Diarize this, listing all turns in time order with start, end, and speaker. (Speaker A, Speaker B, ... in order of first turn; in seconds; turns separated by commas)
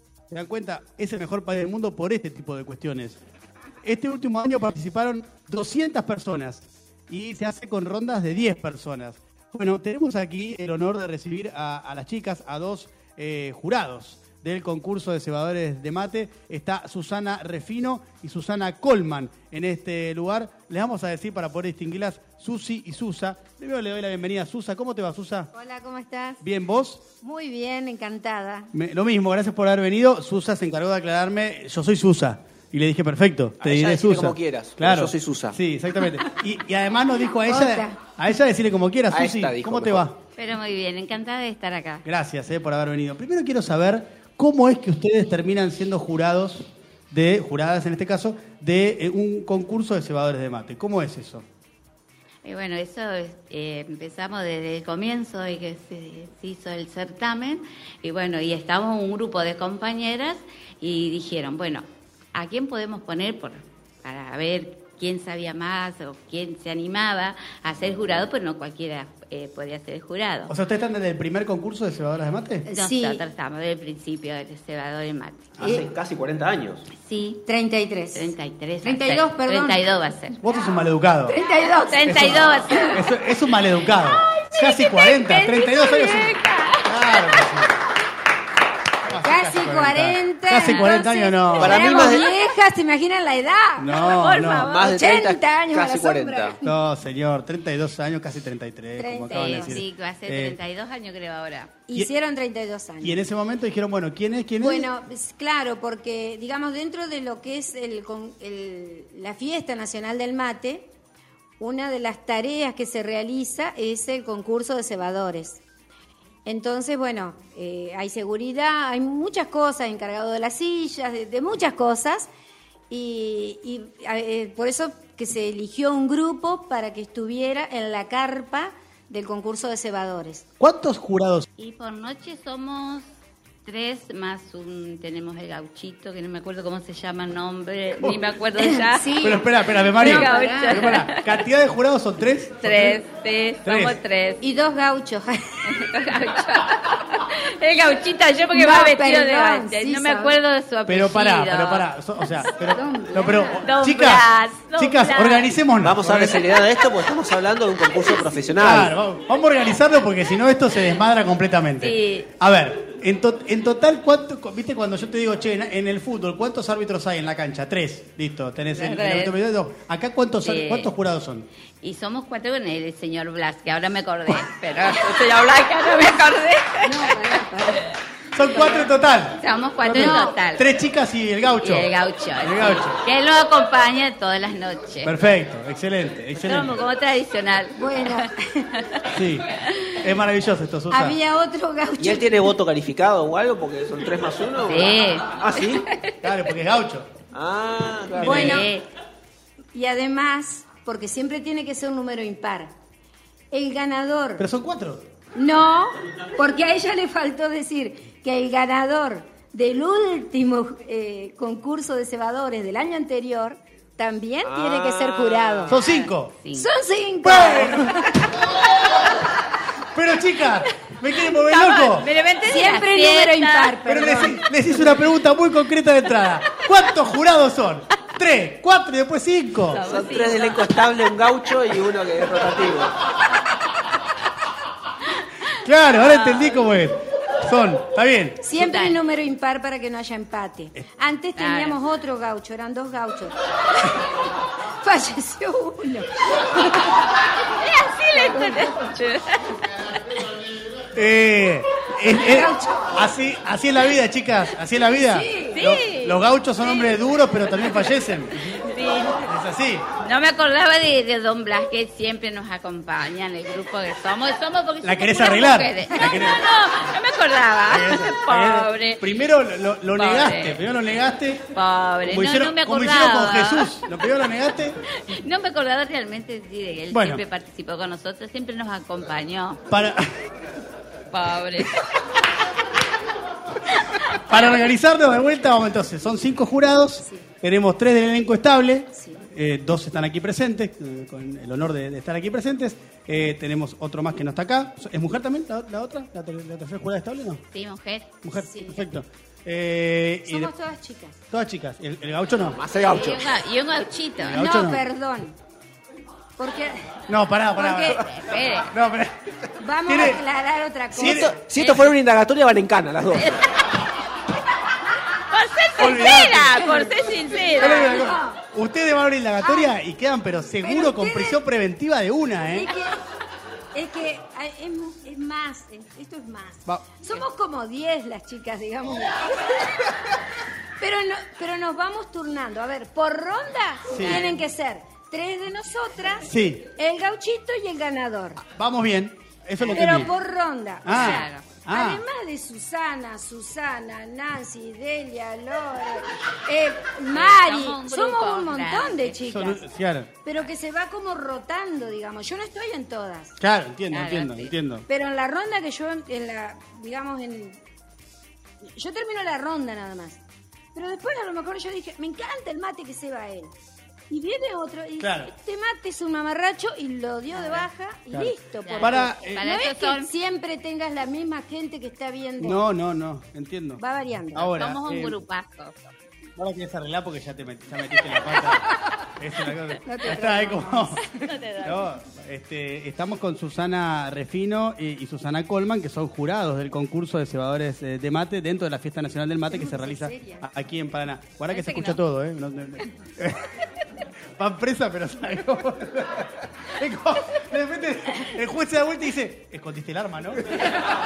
Speaker A: 0.3-3.2, Speaker A: 3.8-25.5, Speaker B: 25.5-26.4, Speaker A: 26.4-27.0, Speaker B: 27.2-28.7, Speaker A: 28.7-40.2, Speaker C: 33.6-35.6, Speaker B: 37.1-38.0, Speaker C: 39.1-40.0, Speaker D: 40.4-42.0, Speaker A: 42.0-51.4, Speaker D: 52.4-70.5, Speaker A: 70.5-72.7, Speaker B: 72.6-73.2, Speaker D: 72.7-75.6, Speaker C: 75.6-76.9, Speaker D: 76.9-77.4, Speaker B: 77.5-79.9, Speaker D: 78.1-80.4, Speaker A: 80.4-81.4, Speaker B: 80.5-83.0, Speaker D: 81.8-83.0, Speaker A: 82.0-87.8, Speaker D: 84.0-87.6, Speaker A: 89.1-92.1, Speaker B: 89.1-94.0, Speaker D: 90.6-91.0, Speaker C: 91.5-92.3, Speaker A: 93.8-94.7, Speaker D: 93.9-95.0, Speaker C: 94.5-96.6, Speaker B: 94.8-96.8, Speaker A: 96.6-100.6, Speaker B: 99.0-99.8, Speaker D: 99.3-101.7, Speaker B: 101.9-103.2, Speaker A: 103.0-104.9, Speaker B: 104.6-110.9, Speaker B: 111.6-115.6, Speaker B: 116.5-122.3, Speaker B: 122.9-130.4, Speaker A: 130.6-131.5, Speaker D: 131.6-133.1, Speaker D: 133.6-139.3, Speaker B: 138.6-141.0, Speaker A: 139.2-143.0, Speaker D: 139.9-141.4, Speaker D: 142.6-144.4, Speaker A: 143.6-144.0, Speaker B: 144.4-145.9, Speaker D: 145.7-152.5, Speaker B: 148.5-150.4, Speaker A: 150.9-156.6, Speaker B: 152.4-153.7, Speaker D: 153.6-155.6, Speaker C: 155.8-158.9, Speaker A: 158.6-171.5, Speaker D: 161.8-162.3, Speaker D: 168.7-169.4, Speaker D: 170.4-170.9, Speaker D: 171.8-177.9, Speaker B: 176.8-177.9, Speaker A: 178.3-183.0, Speaker B: 178.4-178.9, Speaker D: 179.4-180.7, Speaker B: 179.9-180.3, Speaker D: 181.6-185.1, Speaker A: 185.0-186.7, Speaker D: 186.3-188.3, Speaker B: 187.8-188.7, Speaker A: 189.1-191.2, Speaker D: 189.5-190.0, Speaker B: 190.9-192.5, Speaker C: 192.0-195.8, Speaker D: 194.6-196.1, Speaker A: 196.2-197.1, Speaker C: 197.3-198.6, Speaker A: 198.1-198.7, Speaker B: 198.2-198.7, Speaker D: 198.2-198.9, Speaker B: 199.7-202.7, Speaker B: 203.5-204.4, Speaker A: 204.4-205.1, Speaker B: 205.3-215.8, Speaker C: 214.4-215.7, Speaker D: 215.7-216.7, Speaker A: 215.7-216.3, Speaker B: 216.5-218.4, Speaker A: 217.2-218.1, Speaker A: 219.9-222.1, Speaker D: 221.2-223.8, Speaker B: 222.4-224.4, Speaker A: 223.8-229.8, Speaker D: 229.6-231.1, Speaker C: 229.8-233.0, Speaker A: 235.5-238.4, Speaker D: 235.9-236.5, Speaker B: 238.4-244.0, Speaker D: 238.5-239.0, Speaker D: 241.4-241.8, Speaker B: 244.7-247.0, Speaker D: 247.5-249.7, Speaker B: 248.2-248.7, Speaker A: 250.9-258.7, Speaker B: 252.0-253.1, Speaker B: 254.8-255.6, Speaker D: 255.5-257.0, Speaker D: 258.3-259.3, Speaker A: 259.2-259.9, Speaker D: 260.0-269.1, Speaker A: 264.8-266.4, Speaker A: 267.7-274.8, Speaker D: 269.9-270.6, Speaker D: 271.5-273.8, Speaker D: 274.9-279.6, Speaker A: 276.9-277.2, Speaker A: 279.7-280.2, Speaker D: 281.1-282.0, Speaker D: 283.7-284.1, Speaker A: 284.1-297.4, Speaker B: 288.9-289.3, Speaker D: 297.5-298.1, Speaker A: 298.2-300.5, Speaker B: 298.3-298.9, Speaker B: 300.2-301.2, Speaker A: 301.3-302.6, Speaker C: 302.5-303.3, Speaker D: 302.8-304.4, Speaker A: 304.2-304.8, Speaker B: 304.3-305.4, Speaker B: 306.4-307.0, Speaker A: 307.1-309.1, Speaker B: 307.5-308.1, Speaker D: 307.8-308.7, Speaker B: 309.6-311.4, Speaker A: 309.8-310.2, Speaker A: 310.9-311.4, Speaker C: 310.9-313.4, Speaker D: 311.5-311.9, Speaker D: 313.1-313.9, Speaker D: 315.1-318.0, Speaker A: 315.8-316.8, Speaker B: 316.6-318.4, Speaker A: 317.6-322.8, Speaker B: 319.4-319.7, Speaker B: 320.6-321.4, Speaker B: 322.4-323.0, Speaker B: 323.7-330.2, Speaker B: 330.8-338.4, Speaker A: 333.9-334.3, Speaker D: 333.9-334.4, Speaker A: 336.2-336.7, Speaker A: 338.4-340.1, Speaker D: 339.6-340.0, Speaker B: 339.6-349.7, Speaker A: 340.8-342.0, Speaker D: 340.9-341.5, Speaker D: 347.1-349.2, Speaker A: 349.3-350.1, Speaker B: 350.2-353.4, Speaker A: 353.4-354.9, Speaker D: 353.9-354.5, Speaker B: 354.9-357.6, Speaker B: 358.8-360.2, Speaker B: 360.7-363.5, Speaker B: 364.1-372.7, Speaker A: 365.0-365.3, Speaker D: 367.3-367.6, Speaker A: 368.1-369.5, Speaker D: 368.6-370.1, Speaker A: 372.4-373.8, Speaker B: 373.8-374.5, Speaker A: 374.3-375.2, Speaker D: 374.5-375.9, Speaker A: 376.4-381.0, Speaker B: 379.8-381.3, Speaker D: 381.0-382.0, Speaker A: 381.6-393.6, Speaker B: 389.5-390.4, Speaker D: 391.5-392.0, Speaker A: 394.4-400.7